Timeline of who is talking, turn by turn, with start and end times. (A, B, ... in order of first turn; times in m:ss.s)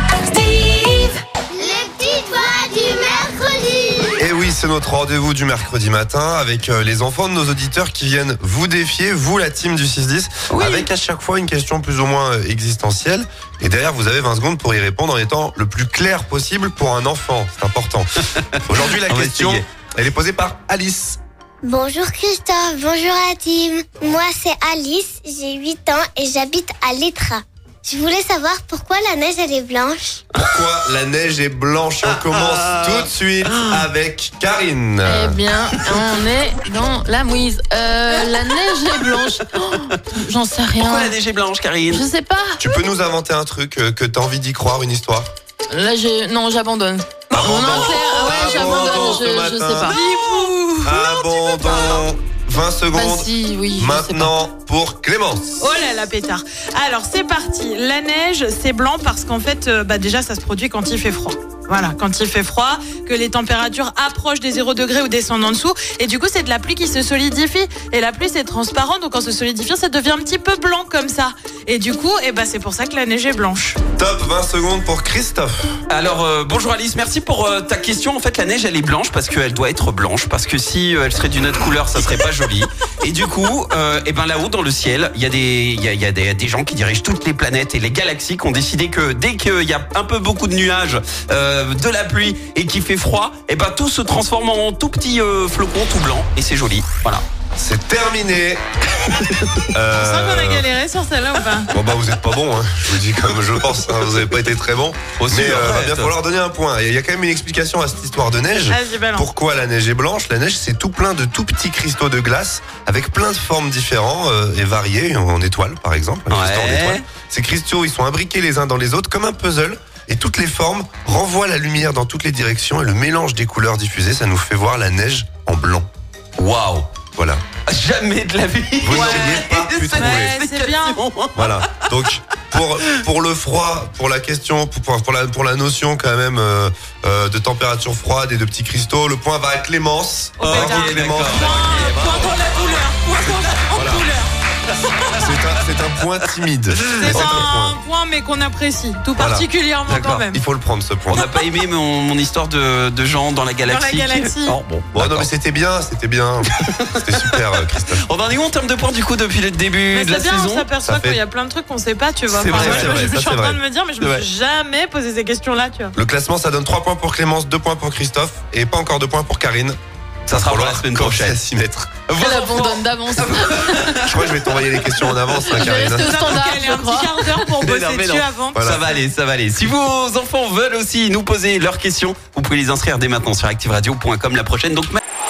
0:00.3-0:04.2 A
0:04.2-0:21.2 B
0:10.5-0:10.9 C
0:18.3-0:19.7 C
0:21.6-0:30.2 A
0:30.3-0:35.4 B
0:30.4-0:30.7 C
0:32.0-0:33.9 C
0:35.0-0:41.1 D
0:39.0-0:39.9 C
0:40.8-0:42.0 C
0:41.9-0:42.6 D
0:42.6-0:45.3 B
0:45.7-0:50.0 D
0:47.3-0:50.0 B
0:48.2-0:48.6 E
0:48.5-0:48.9 C
0:49.8-0:50.5 C
0:49.9-0:51.3 E
0:50.8-0:55.6 B
0:52.9-0:54.4 D
0:55.6-1:13.8 E
1:14.0-1:15.8 B
1:15.9-1:37.2 C
1:37.6-1:38.6 B
1:39.0-1:39.7 C
1:39.7-1:40.7 B
1:40.0-1:41.8 E
1:41.7-2:05.9 B
1:45.2-1:46.1 C
1:48.7-1:49.3 E
1:56.3-1:57.1 C
2:06.4-2:06.9 C
2:07.2-2:07.4 B
2:07.6-2:11.9 C
2:08.8-2:10.4 B
2:08.9-2:11.0 E
2:11.4-2:21.7 B
2:20.4-2:22.8 C
2:20.4-2:25.3 E
2:23.8-2:24.1 B
2:25.2-2:27.8 B
2:26.8-2:27.4 C
2:26.9-2:30.4 E
2:29.2-2:29.5 B
2:29.9-2:30.3 C
2:30.3-2:31.3 B
2:31.1-2:35.3 C
2:33.6-2:34.6 E
2:34.9-2:38.0 B
2:36.5-2:40.7 C
2:39.9-2:46.0 E
2:40.9-2:41.2 B
2:42.3-2:43.2 C
2:42.4-2:43.6 B
2:44.0-2:44.3 C
2:46.0-2:49.8 B
2:50.3-2:51.4 C
2:50.3-2:52.0 B
2:52.1-2:55.8 C
2:52.2-2:54.1 D
2:54.0-2:56.4 B
2:55.5-2:57.4 D
2:55.9-2:58.6 E
2:57.6-3:05.0 C
2:58.5-2:58.8 B